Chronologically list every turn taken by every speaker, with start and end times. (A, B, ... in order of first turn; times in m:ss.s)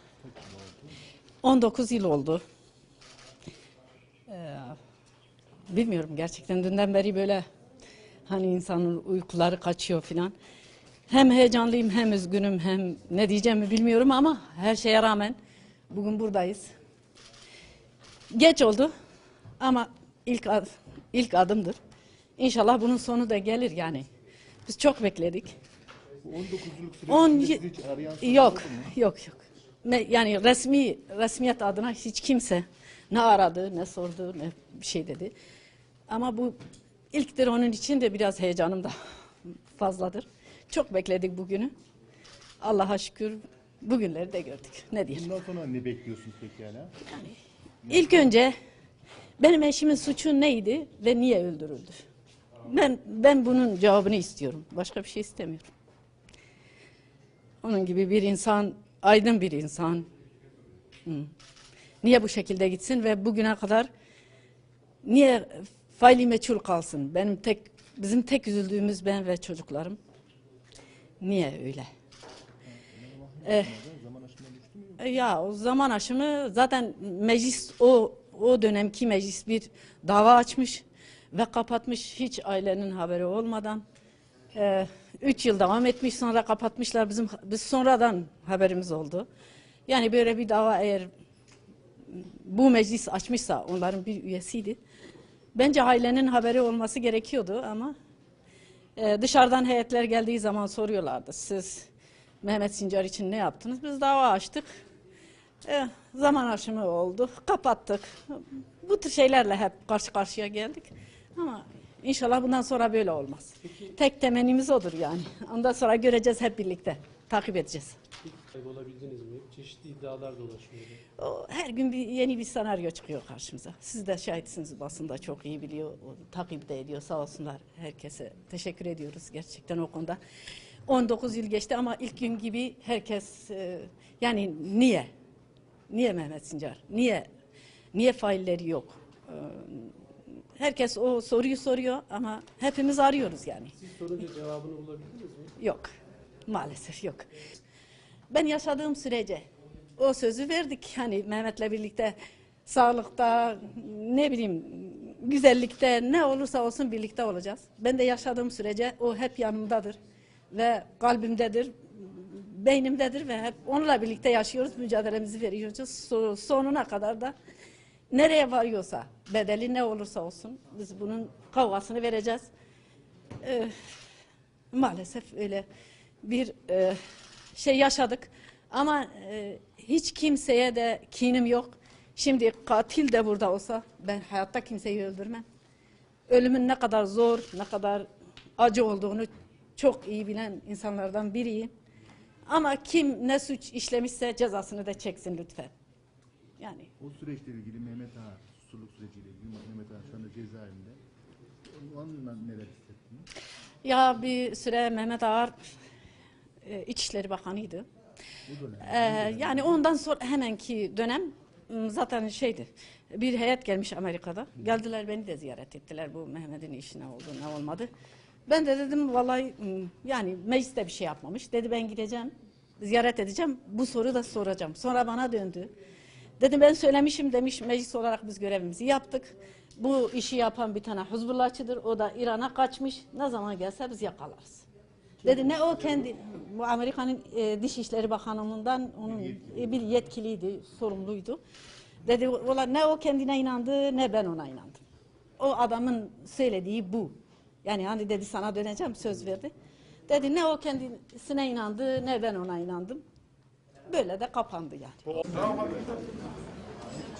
0:00.2-0:01.0 A
0:01.4-0:02.4 B
0:04.3-0:04.8 B
0:05.7-0:07.4 B
0:08.3-0:10.3 B
0:11.1-0:15.4 B
0:15.9-0:16.7 B
0:18.3-0:18.9 B
0:19.6-0:21.8 B
0:22.4-0:24.1 B
0:24.6-0:25.5 B
0:26.2-0:28.9 A
0:27.1-0:27.6 B
0:28.2-0:35.3 B
0:36.1-0:36.6 B
0:37.1-0:38.9 B
0:39.4-0:41.7 B
0:42.6-0:45.3 B
0:45.1-0:47.0 A
0:47.0-0:48.5 B
0:47.8-0:48.3 A
0:49.4-0:52.0 B
0:52.6-0:55.7 B
0:57.6-1:00.1 B
1:01.0-1:01.3 B
1:02.0-1:03.9 B
1:05.0-1:10.0 B
1:11.2-1:11.9 B
1:12.6-1:15.1 A
1:13.4-1:13.7 B
1:15.0-1:23.8 B
1:24.5-1:29.3 B
1:29.9-1:31.1 B
1:32.1-1:34.8 B
1:35.5-1:37.9 B
1:39.0-1:41.9 B
1:42.4-1:44.7 B
1:45.6-1:58.0 B
1:58.2-2:01.0 C
2:01.2-2:10.2 B
2:10.8-2:15.1 B
2:15.9-2:17.3 B
2:17.9-2:19.9 B
2:20.6-2:23.8 B
2:23.8-2:25.5 C
2:25.6-2:25.9 B
2:26.5-2:27.3 B
2:28.3-2:29.4 B
2:30.0-2:40.0 B
2:40.5-2:47.3 B
2:48.1-2:52.5 B
2:53.4-2:53.7 B
2:54.7-2:55.6 B
2:56.2-2:57.0 B
2:57.5-3:05.4 B
3:06.3-3:08.0 B
3:08.6-3:11.7 B
3:12.5-3:15.7 B
3:16.6-3:16.9 B
3:17.0-3:21.0 A
3:21.6-3:23.3 A
3:23.8-3:25.5 B
3:26.6-3:27.8 B
3:28.4-3:29.8 A
3:28.8-3:37.9 B
3:38.5-3:45.7 B
3:46.4-3:54.6 B
3:55.2-4:01.4 B
3:59.2-3:59.6 A
4:02.0-4:04.8 B
4:05.4-4:09.5 B
4:10.1-4:13.0 B
4:13.9-4:15.5 B